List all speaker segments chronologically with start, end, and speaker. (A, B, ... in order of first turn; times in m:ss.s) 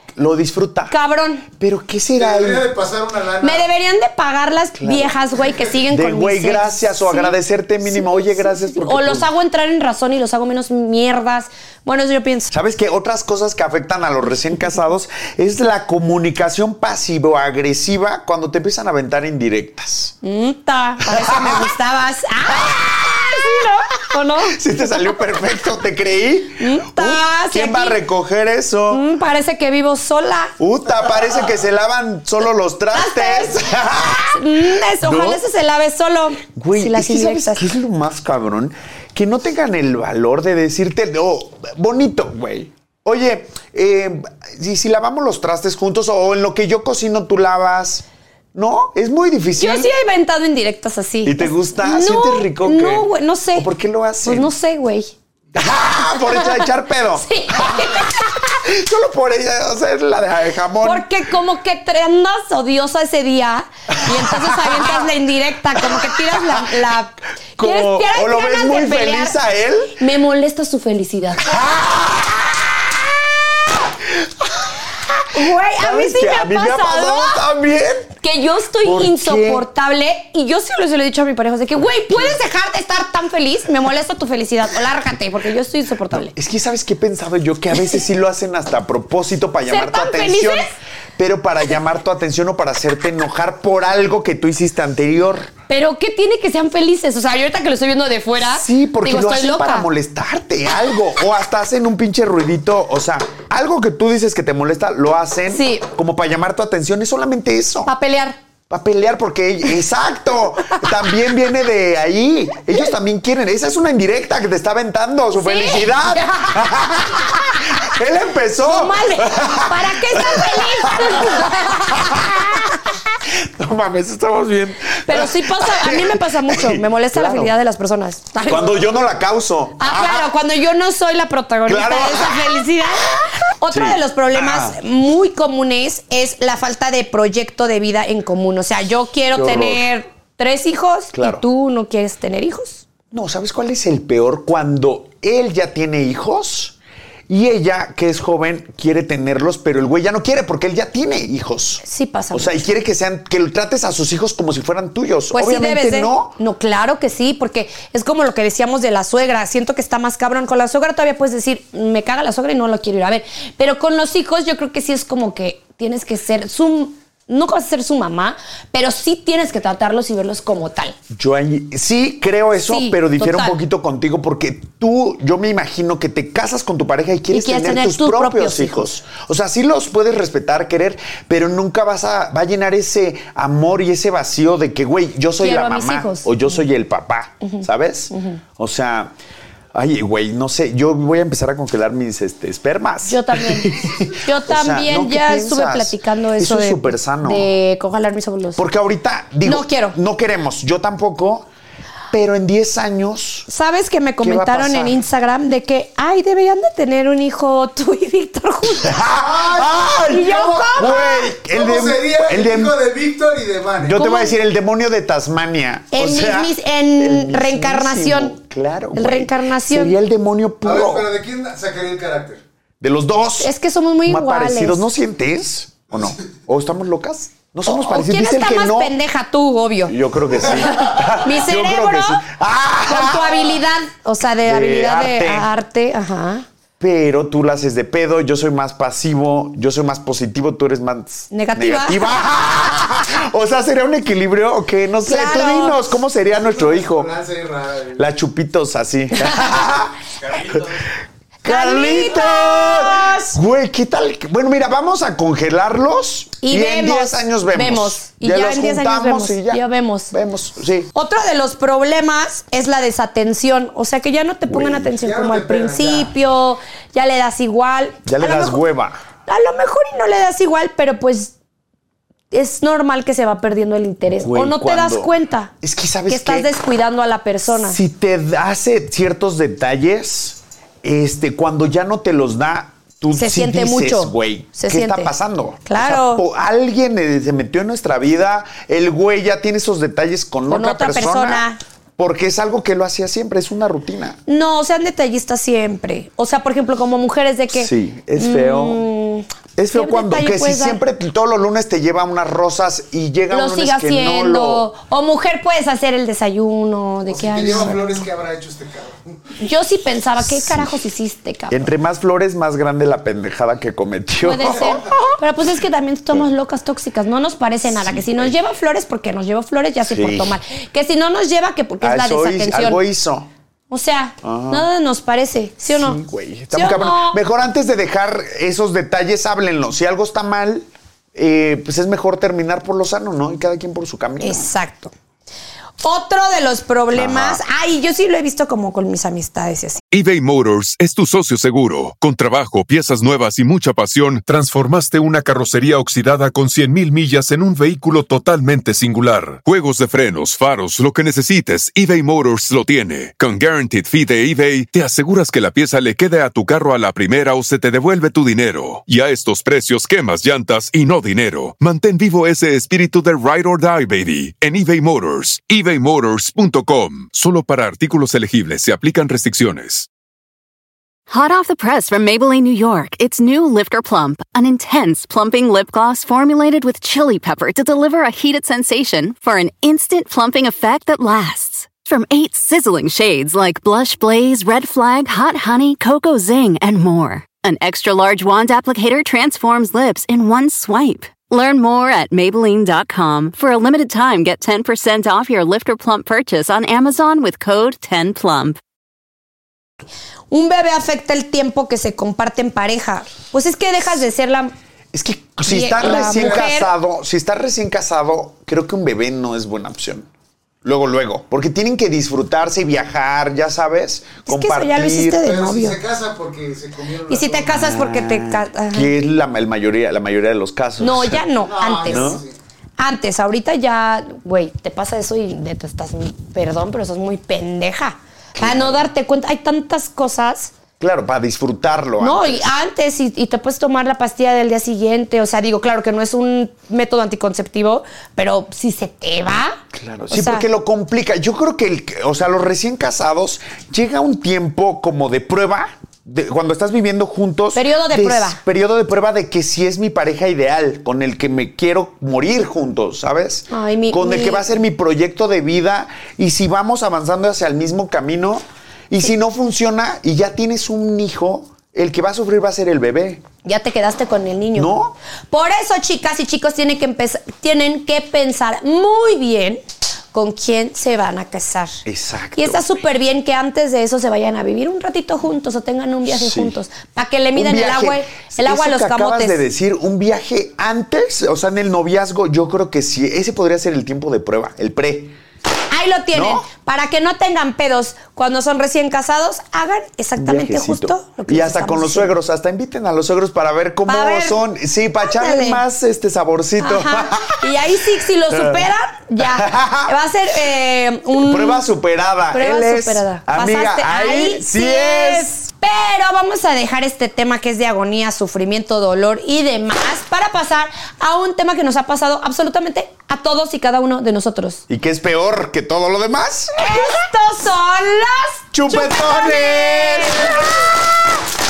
0:00.2-0:01.0 A
0:00.9-0:01.5 B
0:01.5-0:02.7 A
0:02.2-0:03.7 C
0:03.4-0:12.5 B
0:04.8-0:05.2 A
0:05.9-0:09.3 A
0:12.5-0:20.1 A
0:20.2-0:25.0 B
0:21.0-0:21.7 A
0:22.5-0:29.0 A
0:26.6-0:28.0 B
0:28.9-0:30.5 B
0:30.6-0:35.4 A
0:32.9-0:33.6 B
0:34.2-0:37.6 B
0:36.4-0:49.9 A
0:49.6-0:53.7 B
0:51.2-0:54.5 A
0:54.2-0:55.1 B
0:55.5-1:01.1 A
0:56.2-0:58.5 B
1:00.8-1:09.4 B
1:04.0-1:05.1 A
1:05.7-1:06.9 A
1:07.6-1:10.0 A
1:10.0-1:11.6 B
1:11.4-1:18.1 A
1:15.3-1:17.4 B
1:18.2-1:26.3 B
1:18.8-1:19.6 A
1:22.1-1:22.4 A
1:26.1-1:35.5 A
1:29.6-1:30.7 B
1:35.7-1:39.9 B
1:38.4-1:47.9 A
1:45.5-1:45.8 B
1:47.8-1:48.4 B
1:48.7-2:07.5 A
1:55.3-1:56.5 B
1:58.6-2:02.7 B
2:05.0-2:08.8 B
2:08.4-2:10.3 A
2:09.8-2:22.8 B
2:11.6-2:14.8 A
2:19.3-2:19.8 A
2:21.1-2:21.4 A
2:23.1-2:26.8 A
2:27.3-2:36.4 A
2:31.8-2:32.6 B
2:35.3-2:51.0 B
2:51.1-3:09.1 A
2:52.7-2:53.5 B
2:57.3-2:58.9 B
3:05.4-3:06.3 B
3:07.4-3:08.4 B
3:09.7-3:17.5 A
3:13.0-3:18.6 B
3:18.6-3:21.5 A
3:19.4-3:20.0 B
3:22.1-3:23.5 A
3:23.5-3:29.1 B
3:24.2-3:25.0 A
3:28.8-3:32.8 A
3:29.2-3:34.0 C
3:30.1-3:31.4 B
3:33.8-3:41.1 A
3:34.0-3:34.4 B
3:35.9-3:38.3 B
3:38.9-3:39.9 B
3:40.6-3:42.4 C
3:42.8-3:43.5 A
3:43.4-3:44.8 B
3:44.0-3:48.9 A
3:47.6-3:50.0 B
3:49.9-3:53.6 A
3:50.5-3:52.2 B
3:52.8-3:56.4 B
3:54.4-3:55.5 A
3:56.8-4:07.1 A
4:01.3-4:02.3 B
4:05.0-4:05.9 B
4:06.3-4:08.0 C
4:08.0-4:10.8 A
4:09.2-4:09.5 B
4:11.4-4:20.9 A
4:11.4-4:13.3 B
4:16.4-4:20.1 B
4:20.9-4:28.6 B
4:24.5-4:24.9 A
4:24.9-4:26.1 C
4:28.0-4:29.0 A
4:29.3-4:31.3 B
4:32.3-4:35.5 B
4:34.1-4:36.5 A
4:36.1-4:37.8 B
4:37.5-4:51.4 A
4:43.1-4:45.1 B
4:45.6-4:46.2 B
4:50.5-4:51.6 B
4:52.0-4:54.2 A
4:54.3-5:00.8 B
4:57.5-4:58.8 A
4:59.6-5:04.7 A
5:03.3-5:07.8 B
5:07.1-5:09.1 C
5:07.5-5:07.8 A
5:09.4-5:11.7 B
5:10.2-5:10.8 A
5:11.5-5:15.2 A
5:14.2-5:22.8 B
5:17.7-5:18.3 A
5:19.8-5:20.4 A
5:21.8-5:23.3 A
5:23.7-5:26.0 B
5:24.2-5:24.7 A
5:25.7-5:34.5 A
5:26.5-5:27.2 B
5:34.2-5:34.9 B
5:35.8-5:39.8 B
5:36.9-5:37.4 A
5:39.9-6:09.9 D
6:11.1-6:38.6 E
6:40.3-6:44.5 B
6:44.9-6:50.1 A
6:45.4-6:46.7 B
6:45.8-6:46.4 C
6:50.6-6:55.2 A
6:54.2-6:55.8 B
6:55.2-6:57.6 C
6:57.1-6:58.9 B
6:57.5-7:01.3 A
7:00.8-7:02.2 B
7:01.4-7:02.3 C
7:01.8-7:02.2 A
7:02.8-7:10.5 B
7:08.4-7:08.8 A
7:10.8-7:12.4 A
7:12.0-7:19.6 B
7:19.7-7:43.2 A
7:20.1-7:20.4 B
7:27.5-7:28.4 B
7:33.5-7:34.4 B
7:43.4-7:44.7 B
7:44.5-7:45.0 A
7:45.3-7:49.6 B
7:50.1-7:51.8 B
7:51.8-7:52.6 A
7:52.4-7:59.4 B
7:56.0-7:56.6 A
7:57.3-8:05.2 A
8:05.7-8:12.1 B
8:06.1-8:06.4 A
8:10.2-8:17.7 A
8:13.9-8:14.4 B
8:15.0-8:15.6 B
8:16.6-8:21.6 B
8:18.3-8:20.0 A
8:21.1-8:25.3 A
8:22.3-8:34.6 B
8:34.7-8:37.0 A
8:36.6-8:40.6 B
8:38.5-8:40.8 A